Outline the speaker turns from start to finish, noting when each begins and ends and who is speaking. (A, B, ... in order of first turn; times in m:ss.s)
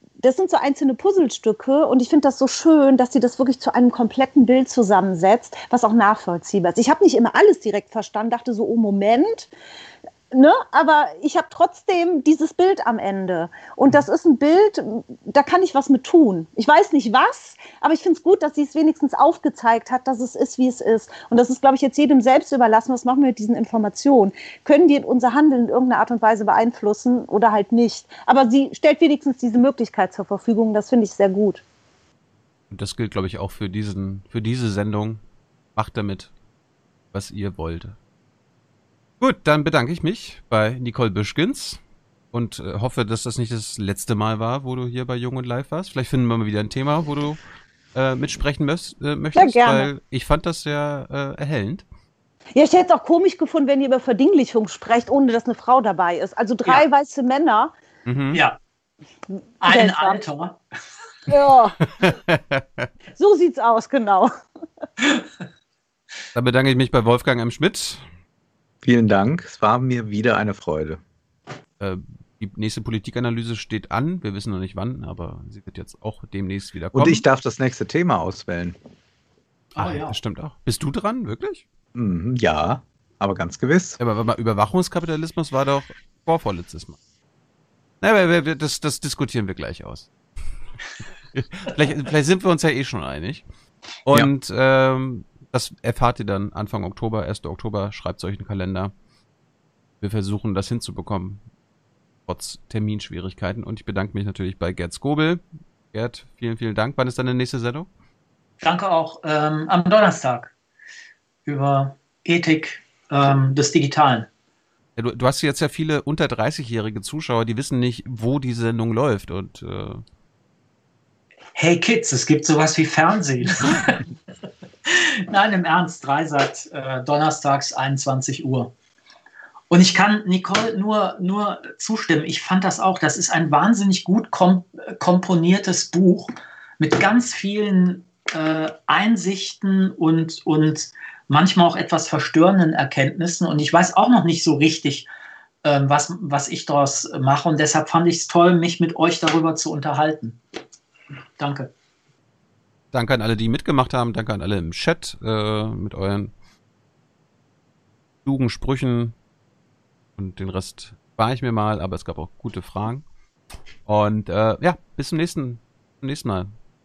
0:00.2-0:09.5 A
0:10.3-0:31.6 A
0:32.7-0:35.2 B
0:35.8-0:36.3 B
0:37.1-0:38.0 B
0:39.2-0:41.8 B
0:42.3-0:47.4 B
0:47.9-0:51.9 B
0:49.3-0:49.9 A
0:52.5-0:57.7 A
0:58.0-0:58.4 B
0:58.3-0:58.6 C
0:59.6-1:00.6 C
0:59.6-1:00.2 A
1:01.3-1:01.8 A
1:01.8-1:02.9 B
1:03.2-1:04.3 A
1:06.3-1:08.0 B
1:08.8-1:11.0 D
1:11.8-1:17.2 B
1:16.9-1:18.8 D
1:19.7-1:20.2 C
1:19.8-1:21.6 B
1:21.9-1:24.0 D
1:24.0-1:27.0 B
1:28.0-1:30.1 B
1:31.3-1:33.4 B
1:34.0-1:38.9 B
1:40.0-1:41.4 B
1:42.3-1:47.9 B
1:48.6-1:50.5 C
1:51.4-1:54.3 C
1:55.0-2:00.0 B
2:01.5-2:04.0 C
2:04.8-2:08.7 C
2:09.7-2:25.1 C
2:25.6-2:30.4 C
2:31.4-2:31.7 C
2:32.9-2:36.3 B
2:38.2-2:39.1 B
2:40.2-2:43.1 B
2:43.8-2:46.5 B